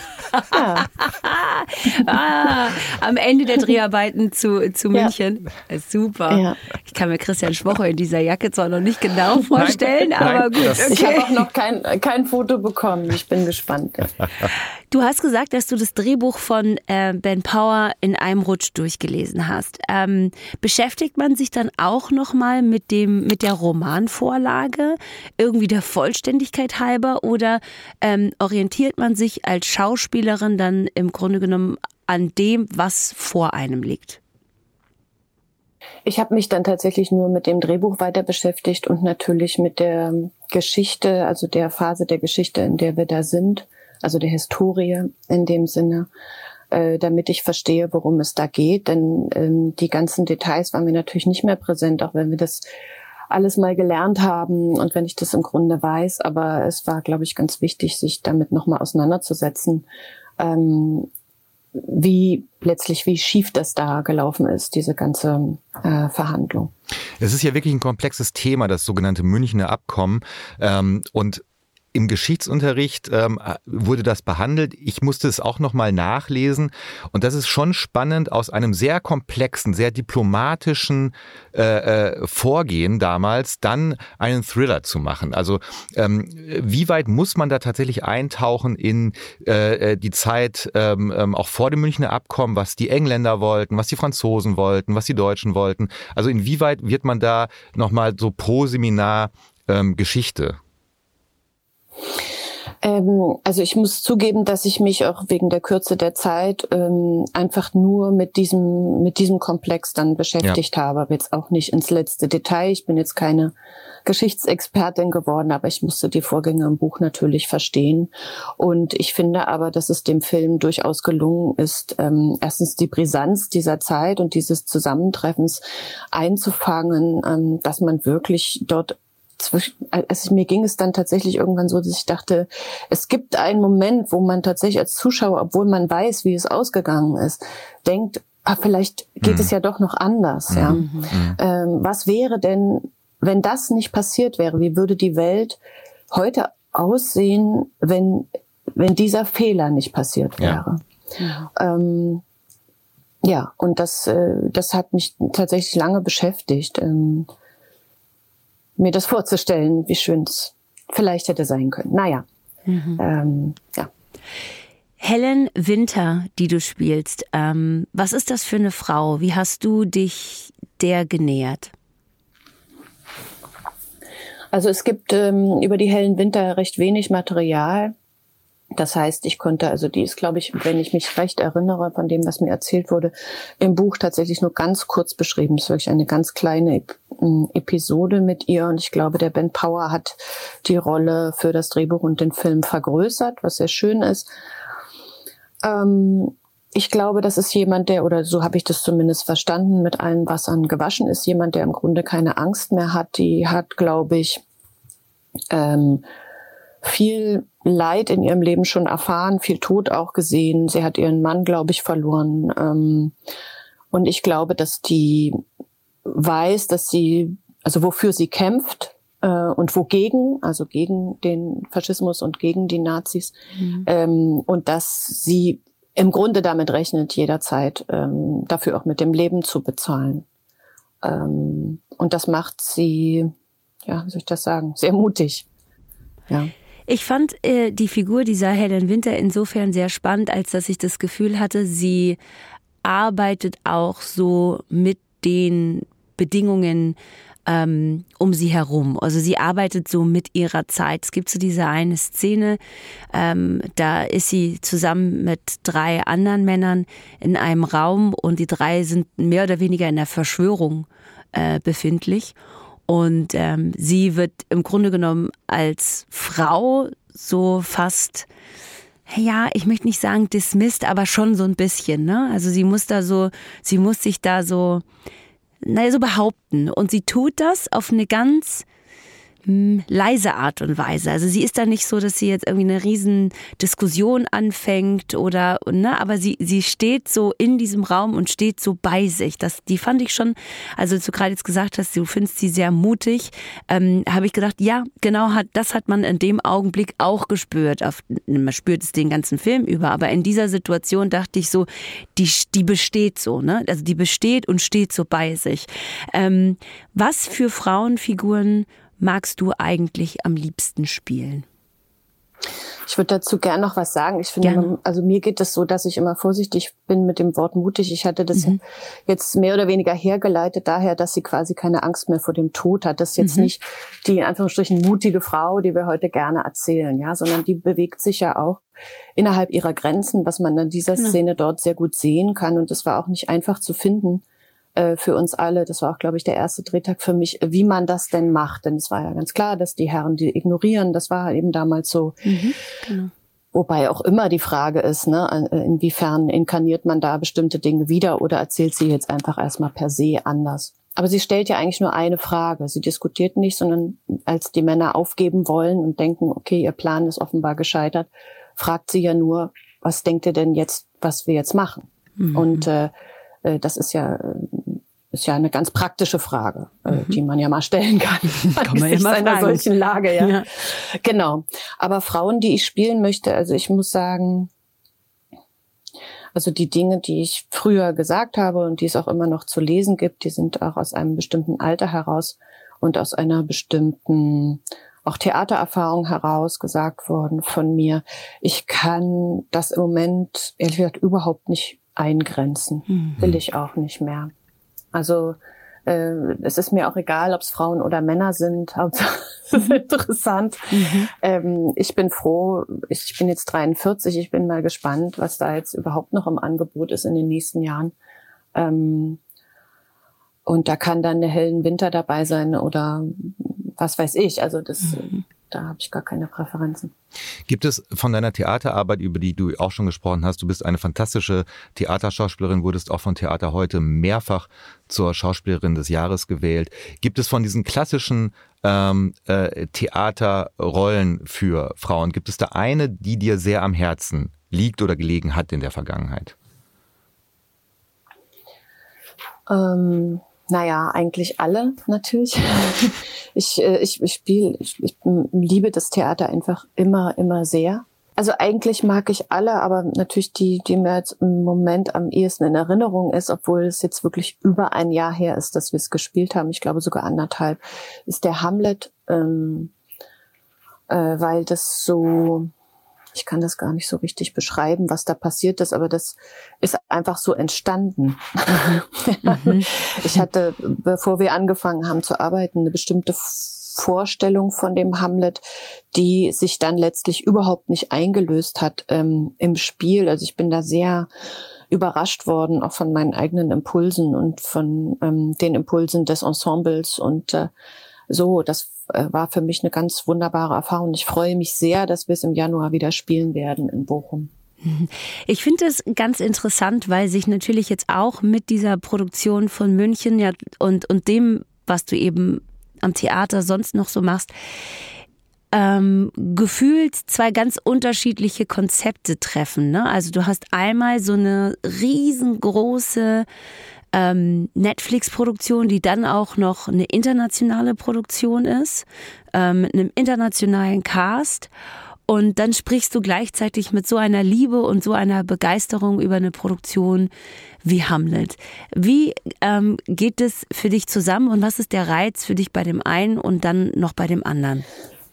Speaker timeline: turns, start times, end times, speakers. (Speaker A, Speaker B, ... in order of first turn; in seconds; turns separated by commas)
Speaker A: 0.4-0.9, Speaker B: 1.0-11.4, Speaker A: 6.3-6.6, Speaker C: 9.6-10.9, Speaker A: 10.9-14.2, Speaker B: 14.9-34.2, Speaker A: 36.1-46.1, Speaker A: 46.7-52.7, Speaker A: 53.3-59.9, Speaker A: 60.4-61.1, Speaker A: 61.8-66.7, Speaker C: 67.2-100.6, Speaker A: 102.8-113.5, Speaker A: 114.1-145.6, Speaker C: 139.2-139.5, Speaker C: 140.5-141.4, Speaker B: 140.7-141.1, Speaker A: 146.1-150.8, Speaker B: 151.2-151.5, Speaker A: 151.5-152.2, Speaker A: 153.2-157.3, Speaker A: 158.8-162.2, Speaker B: 162.7-163.0, Speaker A: 163.0-163.9, Speaker B: 165.0-171.7, Speaker A: 174.5-177.9, Speaker A: 178.7-194.3, Speaker A: 195.6-204.4, Speaker A: 205.5-206.0, Speaker A: 206.8-213.1, Speaker A: 213.9-215.4, Speaker A: 216.1-230.2, Speaker B: 223.6-223.9, Speaker A: 231.0-233.3, Speaker A: 233.9-235.5, Speaker B: 236.9-242.2, Speaker B: 242.8-252.6, Speaker B: 253.1-262.4, Speaker B: 262.9-268.3, Speaker B: 269.1-274.9, Speaker B: 275.6-278.6, Speaker B: 279.5-311.5, Speaker A: 312.9-328.6, Speaker B: 314.4-314.7, Speaker B: 323.2-323.5, Speaker A: 329.2-334.2, Speaker A: 334.8-342.3, Speaker B: 342.2-343.1, Speaker A: 343.5-362.9, Speaker B: 362.2-362.7, Speaker A: 363.4-374.5, Speaker B: 366.9-367.2, Speaker B: 368.4-370.5, Speaker A: 376.3-394.3, Speaker B: 392.9-393.2, Speaker A: 394.9-407.9, Speaker B: 400.7-401.1, Speaker A: 408.6-409.2, Speaker A: 410.5-416.9, Speaker C: 417.5-436.4, Speaker A: 439.5-459.7, Speaker A: 460.9-462.5, Speaker A: 463.1-481.1, Speaker B: 468.5-470.2, Speaker A: 481.7-487.5, Speaker A: 488.1-494.3, Speaker B: 494.6-504.3, Speaker B: 505.5-513.3, Speaker B: 513.9-521.5, Speaker B: 522.1-527.1, Speaker B: 527.6-534.7